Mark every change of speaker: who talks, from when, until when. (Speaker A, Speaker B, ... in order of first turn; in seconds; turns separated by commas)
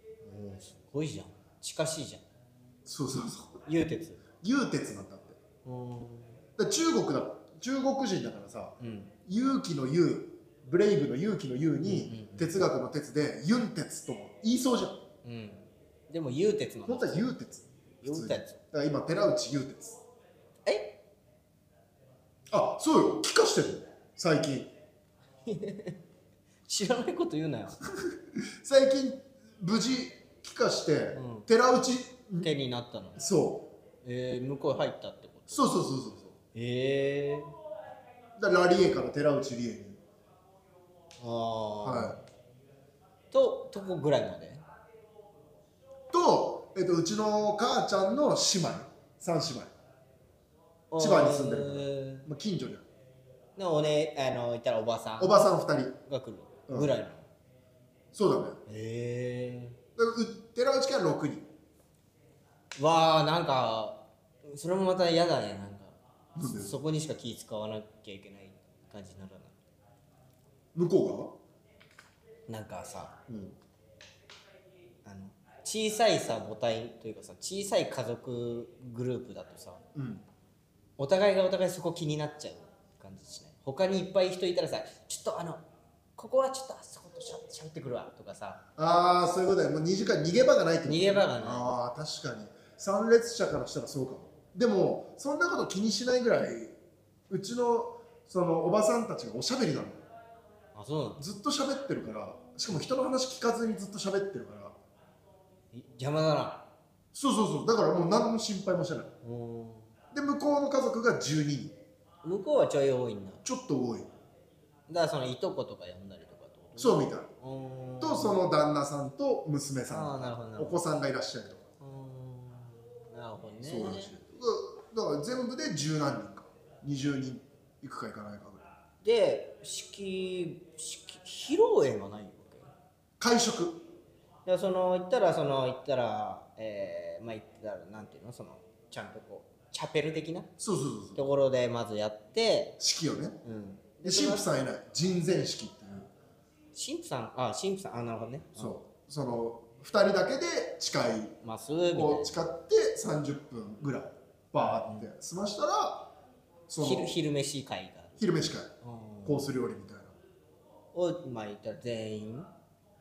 Speaker A: 0.2-2.2, Speaker B: 2.9-3.6, Speaker A: 3.6-4.2, Speaker B: 4.4-5.4, Speaker A: 5.6-6.4, Speaker B: 6.6-8.8, Speaker A: 8.8-9.1, Speaker B: 9.3-15.0, Speaker A: 11.8-12.6, Speaker A: 15.2-17.3, Speaker B: 16.9-20.0, Speaker A: 18.0-18.6, Speaker A: 20.6-21.0, Speaker B: 22.5-24.7, Speaker A: 25.4-26.0, Speaker A: 26.7-27.8, Speaker B: 28.0-32.5, Speaker A: 31.1-31.4, Speaker A: 32.4-33.2, Speaker B: 33.2-33.7, Speaker A: 34.0-35.7, Speaker B: 35.5-36.4, Speaker A: 36.5-37.5, Speaker B: 38.4-40.0, Speaker A: 41.2-42.2, Speaker B: 41.8-42.2, Speaker A: 43.3-44.6, Speaker B: 46.1-49.7, Speaker A: 50.9-52.3, Speaker B: 51.0-52.9, Speaker A: 53.5-55.3, Speaker B: 55.2-56.0, Speaker A: 56.1-57.3, Speaker B: 56.7-56.9, Speaker B: 58.1-58.6, Speaker A: 58.7-59.8, Speaker B: 60.0-61.5, Speaker A: 62.8-69.5, Speaker B: 66.3-66.7, Speaker B: 70.7-71.3, Speaker A: 72.5-73.2, Speaker B: 73.3-73.6, Speaker A: 75.0-79.8, Speaker B: 79.9-80.2, Speaker A: 81.0-85.6, Speaker A: 86.2-88.6, Speaker B: 88.8-96.7, Speaker A: 90.8-91.7, Speaker B: 97.3-100.0, Speaker A: 100.7-101.2, Speaker B: 101.2-104.8, Speaker A: 105.7-106.7, Speaker B: 107.1-109.1, Speaker A: 109.2-109.9, Speaker B: 110.1-111.8, Speaker A: 112.2-113.4, Speaker B: 113.4-114.1, Speaker A: 114.9-118.4, Speaker B: 116.8-117.3, Speaker B: 118.0-121.6, Speaker A: 119.9-120.8, Speaker A: 121.8-124.1, Speaker B: 123.6-128.7, Speaker A: 129.0-132.7, Speaker B: 133.2-133.8, Speaker A: 134.4-140.5, Speaker B: 140.6-141.2, Speaker A: 141.2-142.8, Speaker B: 142.8-143.4, Speaker A: 143.4-144.4, Speaker B: 144.0-146.1, Speaker A: 146.7-148.8, Speaker B: 148.6-151.3, Speaker A: 151.4-152.4, Speaker B: 151.9-156.1, Speaker A: 154.6-155.1, Speaker B: 156.7-157.1, Speaker A: 156.8-158.2, Speaker B: 158.2-158.7, Speaker A: 158.8-159.5, Speaker B: 159.2-160.1, Speaker A: 160.9-162.5